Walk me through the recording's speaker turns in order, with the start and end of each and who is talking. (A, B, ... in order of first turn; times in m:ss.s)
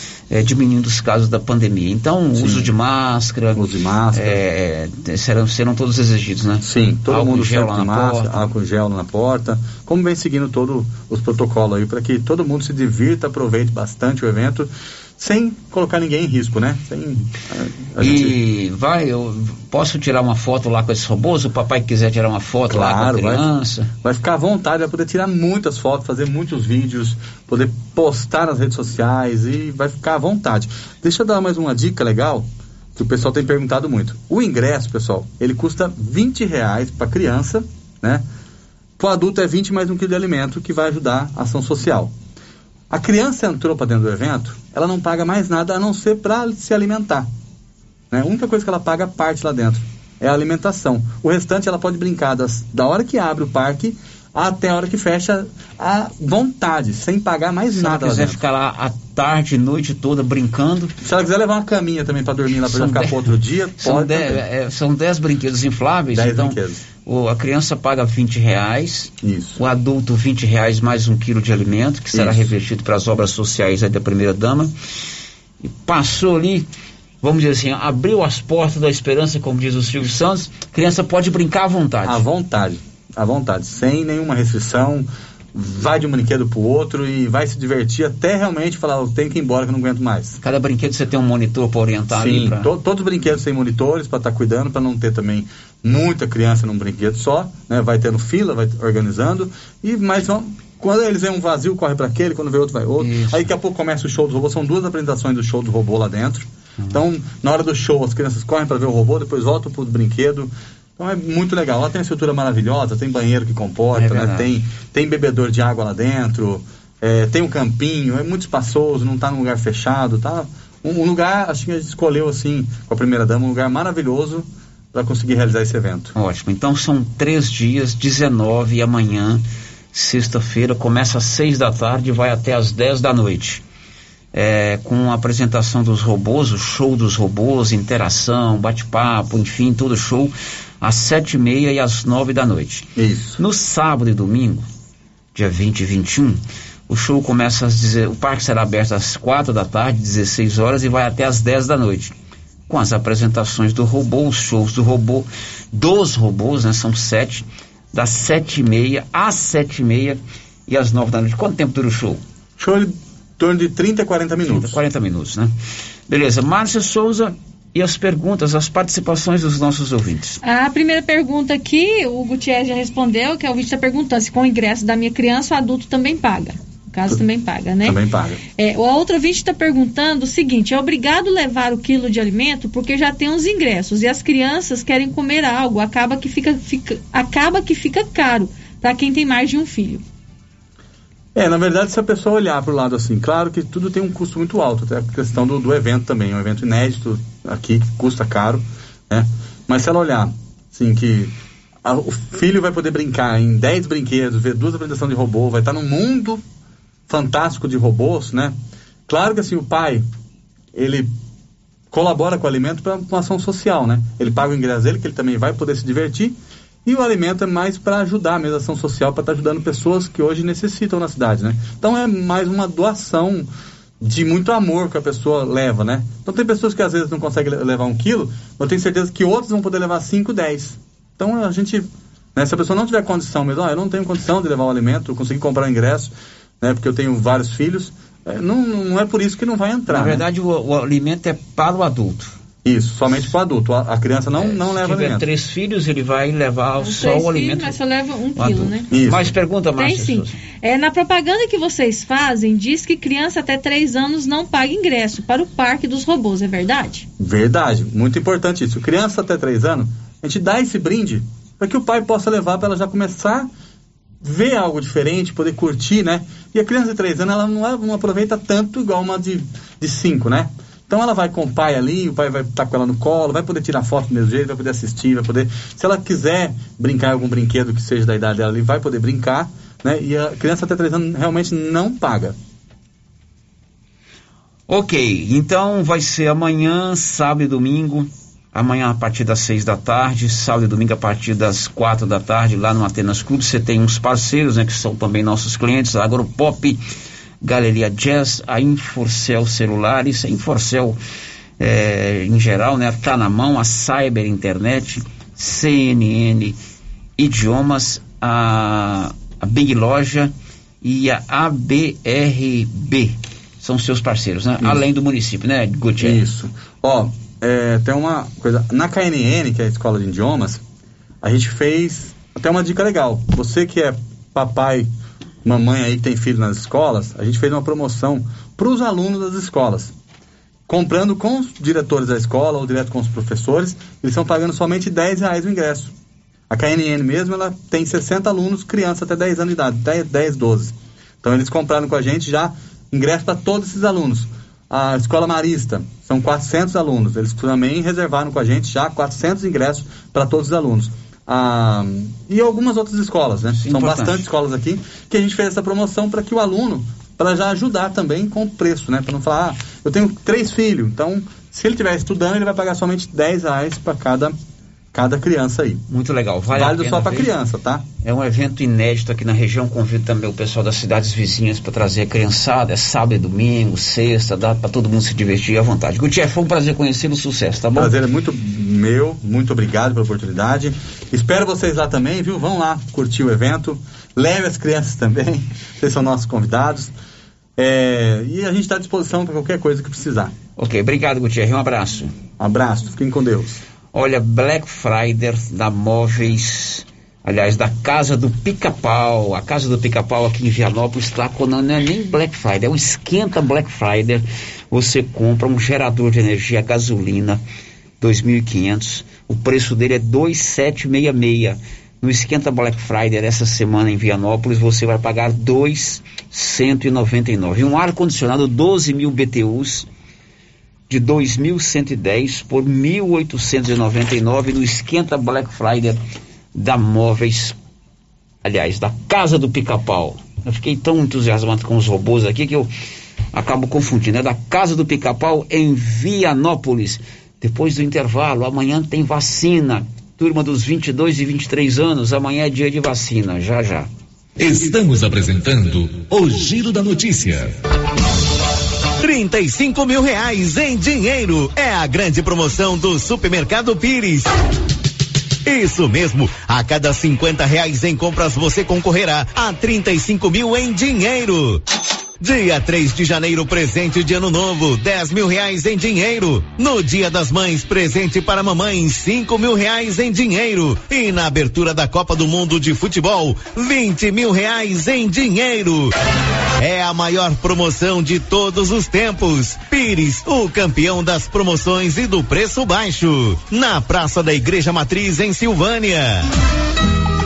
0:00.3-0:08.5 A
0:02.4-0:02.7 B
0:03.6-0:04.4 B
0:06.6-0:18.4 B
0:18.0-0:23.9 A
0:22.7-0:23.5 B
0:24.0-0:38.2 B
0:39.0-0:42.1 B
0:42.9-0:47.3 B
0:48.1-0:58.4 B
0:57.7-1:01.0 A
1:01.0-1:04.4 B
1:02.6-1:14.7 A
1:06.1-1:06.8 B
1:09.2-1:09.6 B
1:12.1-1:12.5 B
1:15.6-1:16.7 A
1:17.2-1:22.2 A
1:22.0-1:30.4 B
1:30.4-1:32.7 A
1:32.1-2:06.1 B
1:43.0-1:43.5 A
1:53.9-1:54.5 A
2:06.2-2:13.6 A
2:14.3-2:24.7 A
2:23.0-2:23.4 B
2:25.4-2:32.1 A
2:32.7-2:42.2 A
2:42.6-2:44.8 B
2:44.4-2:45.5 A
2:46.1-2:50.4 A
2:50.4-2:58.0 C
2:57.8-2:58.4 B
2:58.6-3:10.0 C
3:11.4-3:21.3 B
3:21.8-3:26.4 B
3:27.1-3:28.6 B
3:29.1-3:30.1 B
3:30.8-3:31.1 B
3:31.9-3:43.5 B
3:44.0-4:00.2 B
3:59.9-4:02.4 A
4:02.6-4:05.2 B
4:04.3-4:07.8 A
4:06.8-4:09.0 C
4:08.4-4:10.4 A
4:08.9-4:09.3 B
4:09.8-4:17.1 C
4:17.2-4:23.5 B
4:24.2-4:42.4 B
4:44.7-4:56.8 A
4:57.4-5:01.0 A
5:01.6-5:06.6 A
5:07.2-5:16.2 A
5:16.0-5:20.6 B
5:21.2-5:24.9 B
5:25.4-5:29.9 B
5:30.7-5:35.9 B
5:36.5-6:04.4 B
5:53.6-5:54.2 A
6:04.9-6:05.8 B
6:05.9-6:07.3 A
6:06.5-6:07.8 B
6:08.0-6:17.9 A
6:17.8-6:26.9 B
6:27.6-6:30.3 B
6:30.6-6:32.1 A
6:32.4-6:33.6 B
6:33.9-6:47.4 A
6:48.0-6:59.9 A
7:00.9-7:06.0 A
7:06.6-7:07.6 A
7:08.4-7:12.7 A
7:13.3-7:23.9 A
7:24.4-7:27.5 D
7:29.0-7:34.3 E
7:35.4-7:41.6 E
7:42.2-7:55.9 E
7:56.6-8:06.3 E